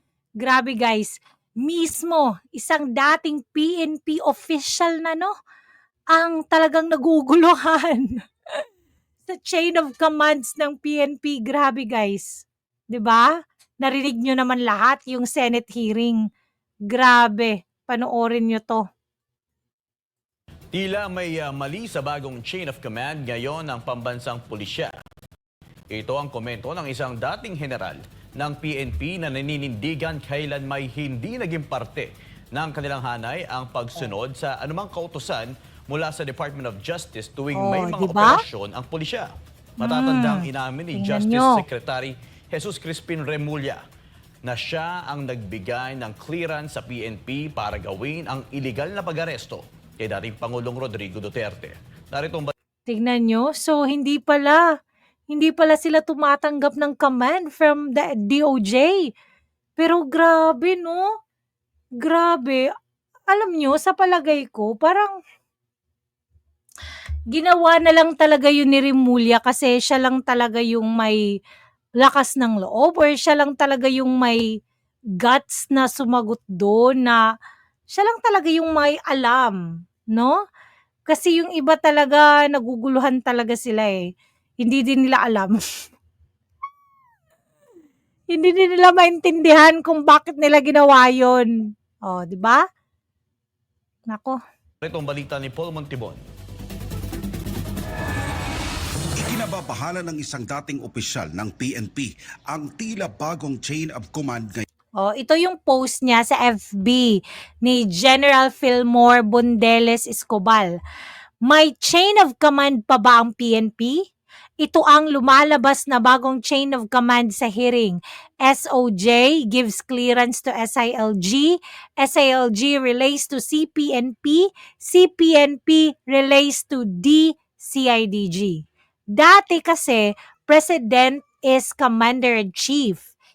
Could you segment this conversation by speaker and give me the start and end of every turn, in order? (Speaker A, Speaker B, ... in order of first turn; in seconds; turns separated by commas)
Speaker A: 0.4-5.3, Speaker A: 6.1-8.2, Speaker A: 9.2-16.2, Speaker A: 16.9-18.8, Speaker B: 20.7-24.9, Speaker B: 25.9-43.8, Speaker A: 37.5-38.4, Speaker A: 39.8-41.6, Speaker B: 44.4-52.5, Speaker A: 52.9-54.6, Speaker A: 55.3-59.1, Speaker A: 59.8-61.0, Speaker A: 62.0-62.6, Speaker A: 63.3-65.2, Speaker A: 67.3-71.2, Speaker A: 72.0-74.4, Speaker A: 75.2-77.2, Speaker A: 77.9-79.6, Speaker A: 81.1-84.0, Speaker A: 84.6-85.6, Speaker A: 88.3-91.5, Speaker A: 92.0-92.6, Speaker A: 94.1-94.4, Speaker B: 94.8-96.2, Speaker C: 99.2-104.7, Speaker A: 105.0-110.7, Speaker A: 111.5-114.0, Speaker A: 114.6-133.1